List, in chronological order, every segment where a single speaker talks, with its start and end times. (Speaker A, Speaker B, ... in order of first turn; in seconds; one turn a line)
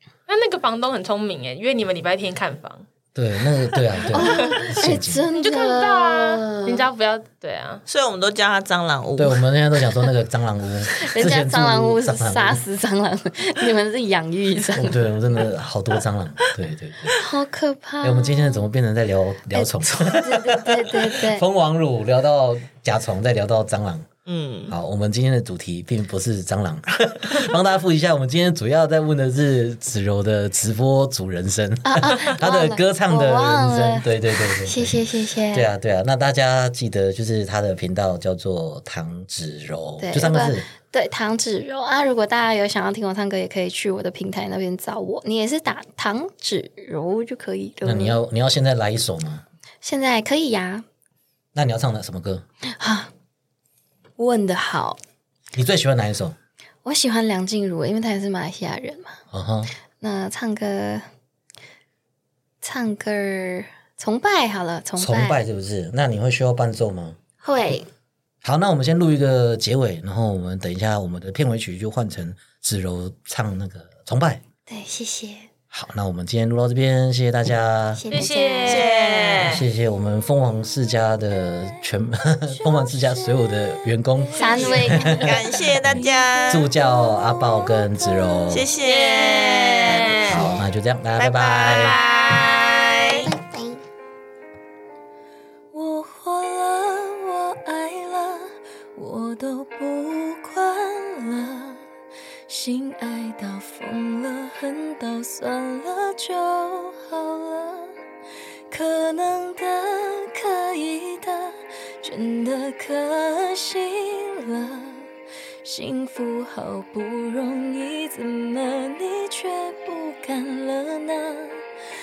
Speaker A: 0.3-2.9
Speaker B: 3.1-5.2
Speaker C: 4.1-6.9
Speaker A: 5.3-7.8
Speaker D: 7.9-9.4
Speaker B: 9.2-12.6
Speaker C: 11.0-15.0
Speaker B: 14.7-17.2
Speaker C: 17.1-18.6
Speaker B: 18.0-24.1
Speaker C: 19.5-21.4
Speaker D: 24.3-24.7
Speaker B: 24.7-40.7
Speaker C: 31.9-34.1
Speaker C: 34.6-35.7
Speaker C: 40.0-48.2
Speaker B: 47.8-49.4
Speaker C: 49.8-50.9
Speaker B: 51.5-52.4
Speaker C: 52.8-53.1
Speaker C: 54.2-55.0
Speaker B: 55.5-56.4
Speaker C: 56.9-59.2
Speaker B: 59.3-59.7
Speaker C: 60.0-61.0
Speaker C: 62.6-65.4
Speaker B: 65.0-67.2
Speaker C: 67.4-67.9
Speaker B: 68.4-74.4
Speaker C: 74.7-75.5
Speaker B: 75.7-78.1
Speaker C: 78.0-78.9
Speaker A: 78.1-79.6
Speaker D: 78.6-79.6
Speaker B: 79.4-88.7
Speaker E: 82.4-88.5
Speaker C: 84.4-85.3
Speaker D: 85.2-86.7
Speaker D: 88.5-90.5
Speaker A: 88.8-90.5
Speaker B: 90.3-92.0
Speaker D: 91.2-93.3
Speaker A: 91.7-92.7
Speaker C: 93.2-93.8
Speaker E: 95.7-101.8
Speaker E: 102.5-108.0
Speaker E: 108.7-115.1
Speaker E: 115.6-121.6